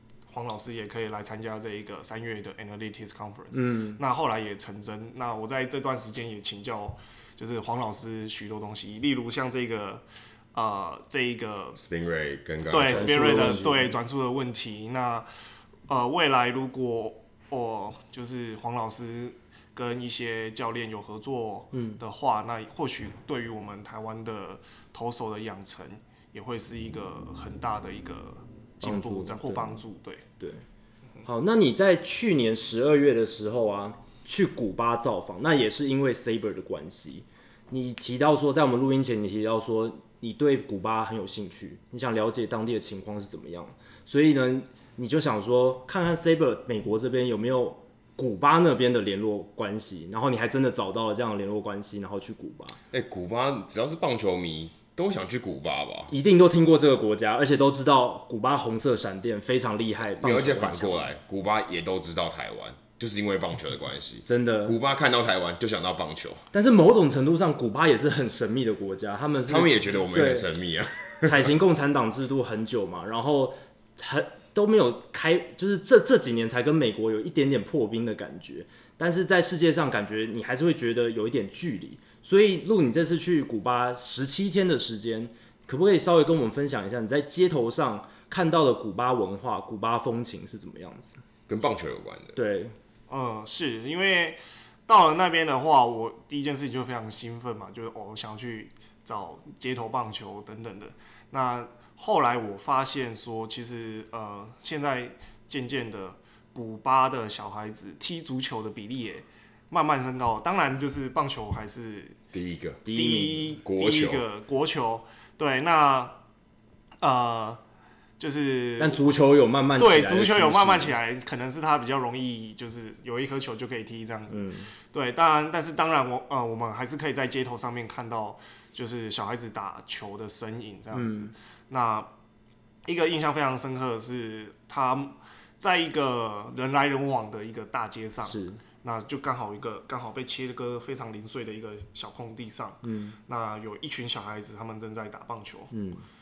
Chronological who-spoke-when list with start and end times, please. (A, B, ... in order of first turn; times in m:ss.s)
0:00.3-0:10.0 A
0:03.5-0:04.0 B
0:10.5-0:11.8 A
0:11.8-0:13.6 C
0:12.7-0:15.3 A
0:12.8-0:14.0 B
0:15.9-0:30.2 A
0:21.7-0:22.0 B
0:28.8-0:29.8 B
0:31.2-0:52.8 B
0:52.9-0:56.1 C
0:56.1-1:01.1 B
1:00.2-1:06.4 C
1:04.3-1:04.8 B
1:06.5-1:10.5 B
1:09.5-1:11.5 C
1:11.2-1:31.2 B
1:31.5-1:32.4 C
1:32.4-1:32.8 B
1:33.1-1:52.2 A
1:52.3-1:52.8 C
1:52.8-1:53.5 B
1:52.9-1:56.2 A
1:53.6-1:54.2 C
1:57.0-1:57.6 A
1:58.2-1:59.1 A
1:58.8-2:01.0 B
1:59.8-2:12.1 A
2:04.3-2:04.7 B
2:10.9-2:11.3 B
2:12.9-2:25.7 A
2:18.2-2:18.6 B
2:22.8-2:23.2 B
2:25.7-2:26.0 B